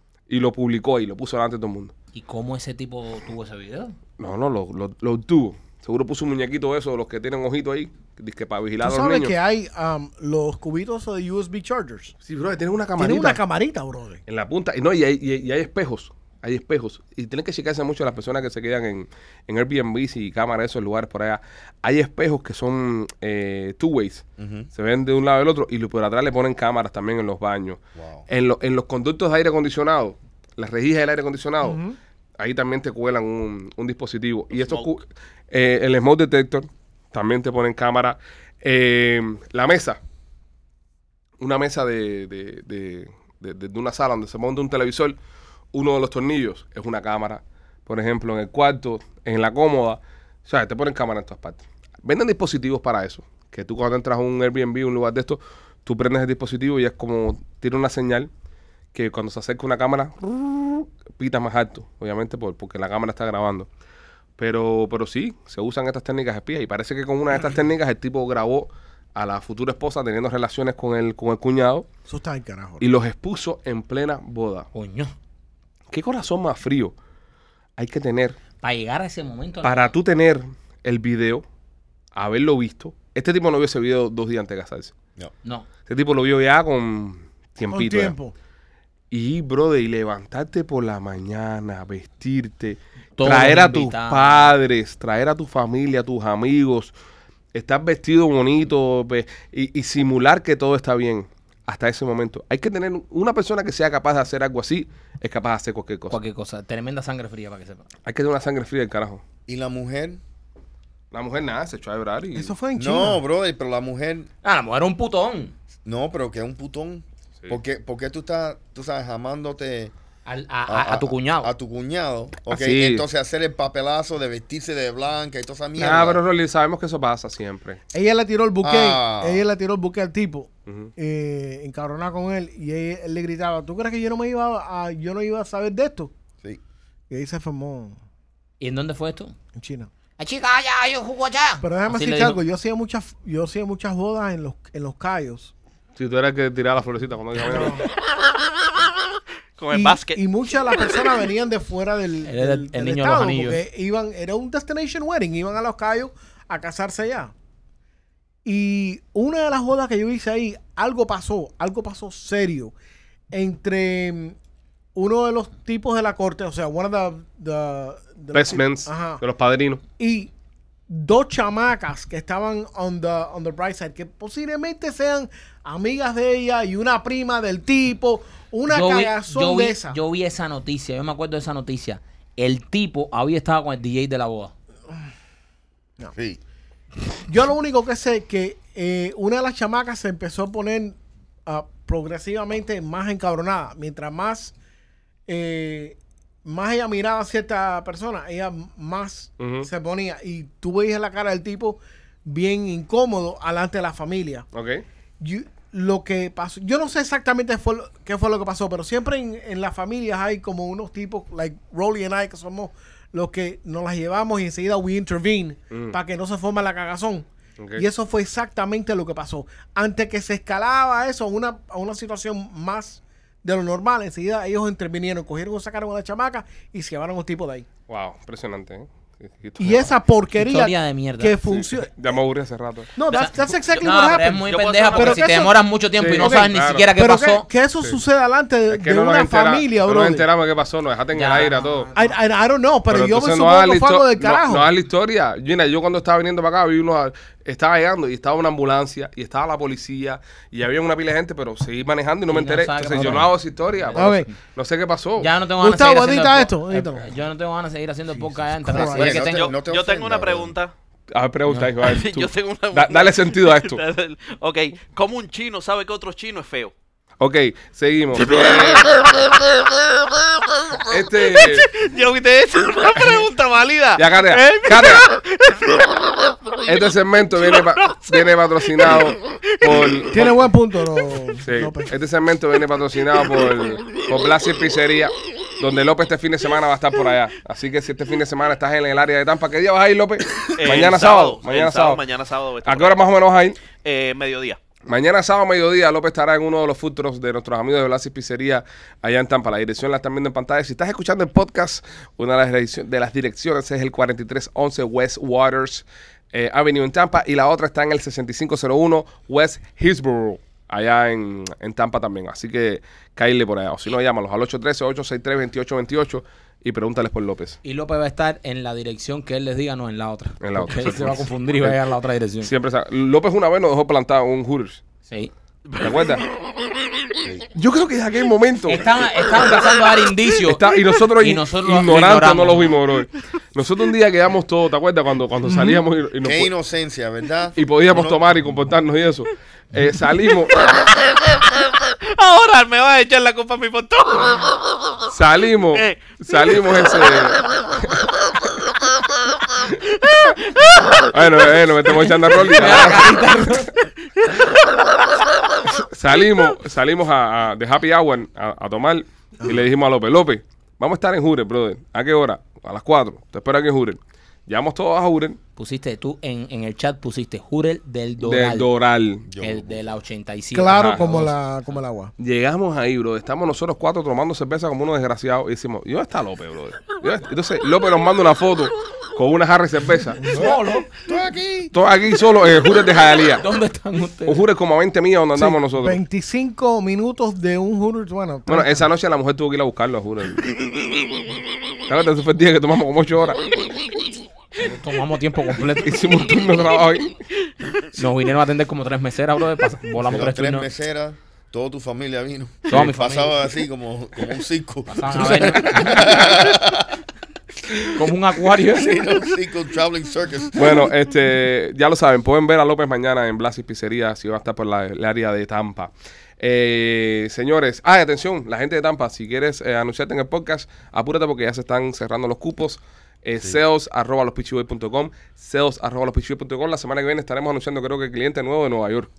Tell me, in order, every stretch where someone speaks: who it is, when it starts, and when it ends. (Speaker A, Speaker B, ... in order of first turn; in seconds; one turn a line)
Speaker A: 0.3-1.9
Speaker B: 2.1-4.0
Speaker A: 4.2-9.3
Speaker C: 8.8-12.1
Speaker A: 12.2-13.4
Speaker C: 13.0-14.2
Speaker A: 14.2-31.8
Speaker D: 24.4-24.7
Speaker D: 27.9-28.2
Speaker C: 31.6-32.0
Speaker A: 32.4-40.0
Speaker E: 34.5-34.9
Speaker A: 41.4-45.2
Speaker A: 45.7-58.3
Speaker A: 58.9-63.7
Speaker A: 64.4-71.9
Speaker C: 72.1-72.9
Speaker A: 72.8-74.7
Speaker B: 74.7-75.1
Speaker A: 75.9-76.9
Speaker A: 77.8-78.4
Speaker B: 78.6-79.9
Speaker A: 79.6-81.4
Speaker A: 82.1-84.9
Speaker A: 85.8-88.1
Speaker C: 87.7-88.3
Speaker A: 89.1-96.9
Speaker B: 93.2-94.5
Speaker A: 97.5-106.2
Speaker B: 106.1-107.9
Speaker A: 108.0-109.2
Speaker D: 109.5-110.2
Speaker A: 111.1-112.5
Speaker C: 112.3-113.2
Speaker D: 112.8-114.3
Speaker B: 114.4-115.5
Speaker D: 115.8-119.9
Speaker B: 120.2-121.5
Speaker D: 120.7-126.2
Speaker A: 122.5-123.0
Speaker A: 125.8-127.8
Speaker C: 127.9-136.1
Speaker D: 128.6-129.5
Speaker C: 137.1-138.0
Speaker B: 138.6-139.3
Speaker C: 139.6-139.9
Speaker B: 140.2-142.4
Speaker C: 141.6-145.5
Speaker A: 145.9-147.8
Speaker C: 147.4-147.8
Speaker E: 149.6-150.2
Speaker C: 149.7-157.3
Speaker B: 152.2-153.6
Speaker C: 158.4-162.7
Speaker C: 163.3-164.3
Speaker C: 164.9-169.2
Speaker A: 168.3-169.8
Speaker C: 170.0-170.3
Speaker C: 170.9-180.0
Speaker B: 178.7-184.5
Speaker D: 186.1-186.4
Speaker C: 187.3-194.5
Speaker C: 195.3-204.5
Speaker A: 199.4-199.7
Speaker A: 204.5-204.8
Speaker C: 205.2-227.7
Speaker A: 215.7-216.0
Speaker A: 217.6-217.8
Speaker A: 227.9-229.9
Speaker C: 229.6-232.2
Speaker B: 230.3-231.4
Speaker A: 231.4-232.9
Speaker C: 232.9-235.6
Speaker B: 233.1-237.5
Speaker E: 234.4-235.3
Speaker A: 236.0-236.9
Speaker C: 236.2-240.3
Speaker A: 238.7-241.9
Speaker B: 241.1-242.1
Speaker C: 241.9-244.7
Speaker A: 242.9-255.3
Speaker B: 252.3-254.3
Speaker C: 253.9-254.3
Speaker B: 255.2-259.5
Speaker C: 255.6-257.1
Speaker C: 258.1-259.2
Speaker D: 258.7-260.6
Speaker E: 259.2-260.7
Speaker A: 261.1-263.8
Speaker E: 261.8-266.7
Speaker A: 267.2-269.0
Speaker A: 270.8-271.7
Speaker E: 271.3-275.9
Speaker A: 272.9-273.2
Speaker A: 273.9-275.1
Speaker A: 276.6-280.5
Speaker E: 277.5-278.1
Speaker C: 280.1-281.9
Speaker A: 281.4-292.0
Speaker E: 290.4-293.0
Speaker A: 292.6-293.6
Speaker E: 293.7-294.6
Speaker A: 294.8-317.6
Speaker B: 317.6-322.5
Speaker A: 320.4-321.8
Speaker A: 322.4-324.8
Speaker E: 325.7-326.2
Speaker A: 325.8-326.2
Speaker D: 327.2-327.5
Speaker A: 327.5-328.9
Speaker B: 328.7-330.6
Speaker A: 330.4-336.5
Speaker B: 331.2-332.8
Speaker D: 336.2-338.4
Speaker A: 337.6-340.6
Speaker E: 341.9-344.6
Speaker A: 345.1-348.3
Speaker E: 345.7-346.9
Speaker A: 349.6-350.3
Speaker A: 351.1-353.6
Speaker B: 352.3-353.7
Speaker A: 355.6-365.4
Speaker B: 365.6-368.7
Speaker A: 368.2-369.2
Speaker D: 369.2-370.0
Speaker B: 369.4-371.3
Speaker C: 370.5-372.1
Speaker A: 370.7-371.3
Speaker A: 372.2-380.3
Speaker B: 380.2-380.9
Speaker D: 380.3-381.7
Speaker A: 381.7-383.4
Speaker B: 383.4-384.4
Speaker A: 384.2-386.0
Speaker C: 385.4-388.9
Speaker A: 388.5-391.3
Speaker A: 391.9-393.8
Speaker B: 394.6-396.1
Speaker A: 395.8-397.1
Speaker B: 397.9-400.7
Speaker D: 400.0-407.0
Speaker B: 402.7-403.4
Speaker B: 404.9-406.3
Speaker B: 407.9-409.0
Speaker D: 408.6-410.9
Speaker A: 410.5-429.1